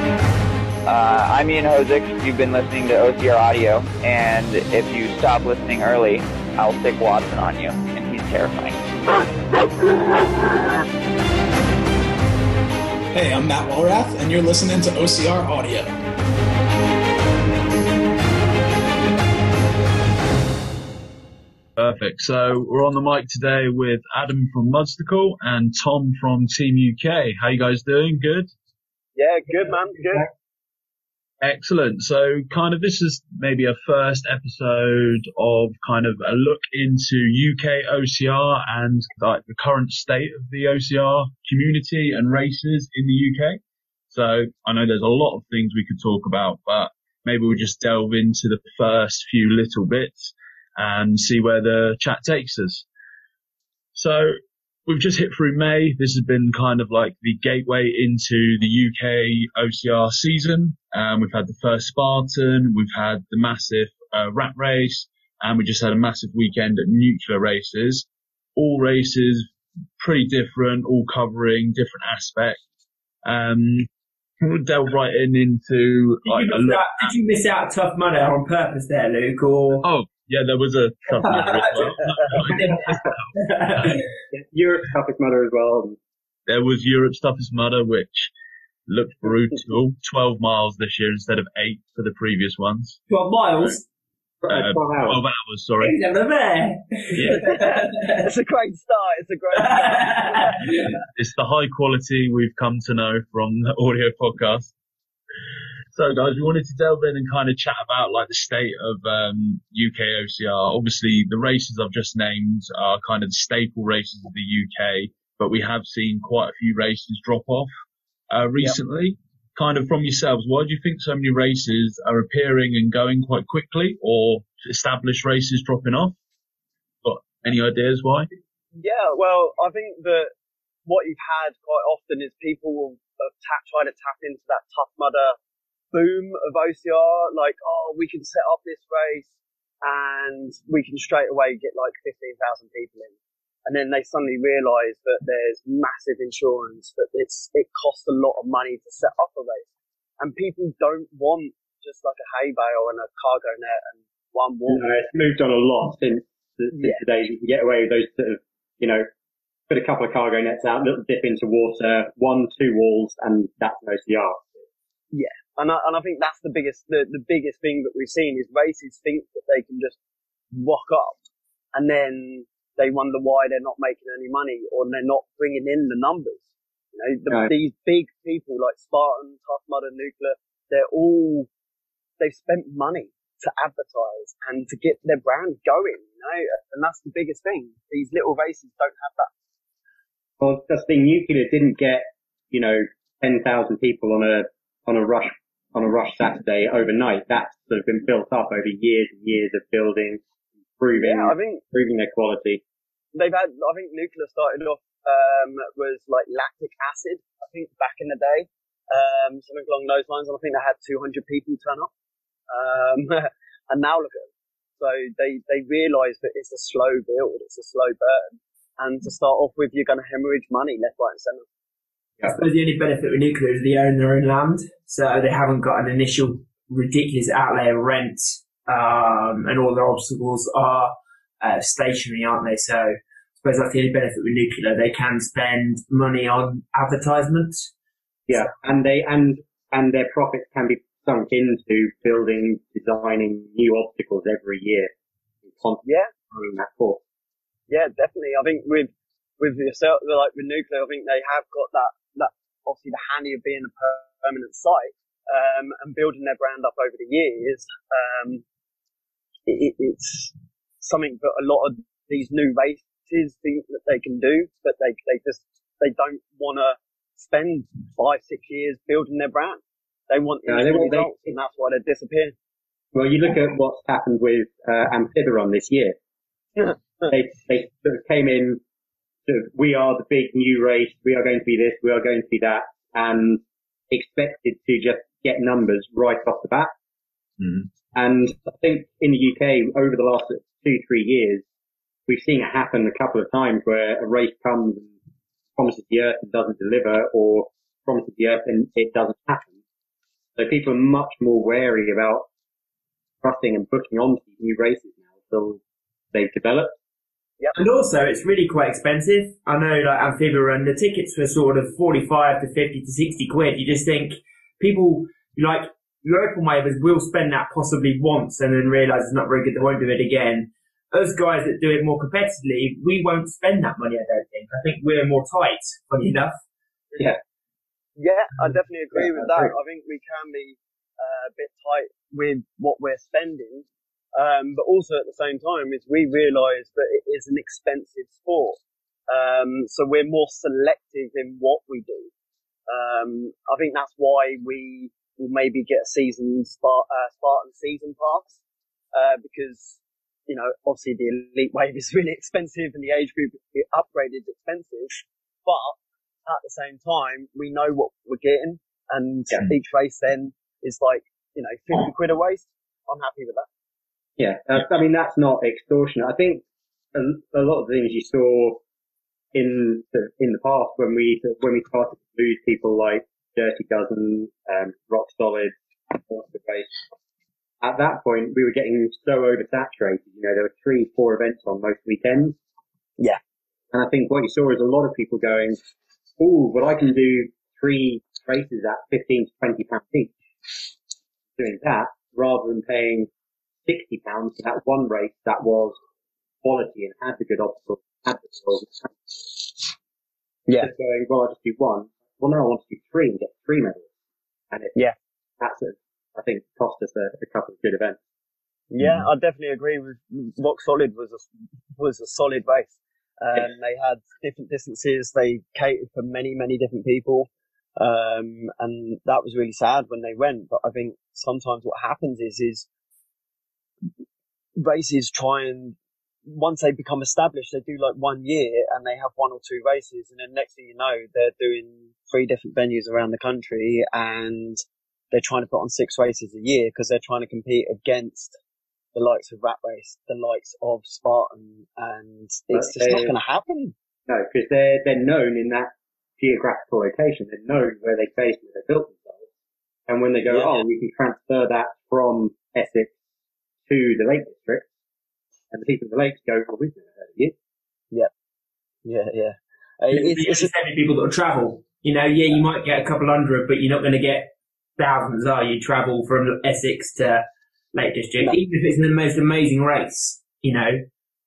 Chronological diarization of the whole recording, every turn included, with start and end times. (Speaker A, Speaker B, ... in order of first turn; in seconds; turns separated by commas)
Speaker A: 0.9-8.8, Speaker B: 13.2-15.9, Speaker C: 21.8-28.5, Speaker D: 29.2-30.3, Speaker C: 31.4-43.6, Speaker C: 44.1-52.9, Speaker C: 53.9-54.3, Speaker C: 54.9-72.6, Speaker C: 73.2-73.9, Speaker C: 74.4-77.1, Speaker E: 76.2-79.9, Speaker C: 79.8-83.3, Speaker E: 81.2-84.0, Speaker D: 82.0-82.3, Speaker F: 84.3-86.0, Speaker C: 86.5-88.3, Speaker C: 88.9-93.0, Speaker E: 93.1-93.8, Speaker F: 94.4-95.2, Speaker C: 94.5-96.0, Speaker E: 95.8-98.3, Speaker C: 97.1-97.4, Speaker D: 97.3-100.7, Speaker E: 99.5-100.9, Speaker C: 101.1-104.7, Speaker C: 105.9-117.7, Speaker C: 118.3-126.2, Speaker C: 127.0-128.3, Speaker D: 128.7-130.3, Speaker D: 130.9-135.4, Speaker D: 135.9-139.3, Speaker D: 139.8-149.7, Speaker D: 150.2-154.8, Speaker F: 154.7-159.1, Speaker D: 156.7-157.0, Speaker F: 159.7-164.7, Speaker D: 165.1-170.0, Speaker D: 170.5-171.2, Speaker D: 171.7-181.5, Speaker D: 182.2-189.3, Speaker F: 190.4-200.2, Speaker F: 200.8-202.6, Speaker D: 201.0-201.6, Speaker D: 203.1-211.9, Speaker D: 212.5-221.5, Speaker E: 222.3-237.7, Speaker F: 238.3-244.9, Speaker F: 245.5-247.0, Speaker D: 245.8-246.1, Speaker D: 247.7-258.4, Speaker D: 259.5-272.4, Speaker F: 270.5-271.3, Speaker F: 272.9-276.0, Speaker D: 276.6-277.1, Speaker F: 277.1-278.6, Speaker F: 279.3-286.7, Speaker C: 287.4-287.7, Speaker F: 287.9-291.4, Speaker F: 292.1-294.9, Speaker F: 295.6-299.5, Speaker F: 300.4-302.3, Speaker F: 303.2-305.6, Speaker F: 306.1-306.7, Speaker E: 307.6-326.4, Speaker D: 328.0-342.1, Speaker F: 328.9-329.5, Speaker D: 342.7-348.4, Speaker D: 348.9-363.5, Speaker F: 364.2-368.6, Speaker F: 369.3-376.8, Speaker F: 377.6-382.4, Speaker F: 383.7-385.6, Speaker F: 386.2-390.1, Speaker F: 391.4-393.1, Speaker F: 393.7-395.8, Speaker F: 396.4-399.7, Speaker F: 400.6-403.9, Speaker F: 404.5-404.8, Speaker F: 405.4-408.0, Speaker D: 408.7-422.7, Speaker C: 408.8-409.1, Speaker D: 424.6-438.4, Speaker D: 438.9-443.8, Speaker F: 442.5-443.1, Speaker F: 444.1-449.3, Speaker F: 449.9-452.9, Speaker F: 453.7-454.7, Speaker F: 455.5-457.3, Speaker D: 458.8-460.5, Speaker E: 459.9-470.8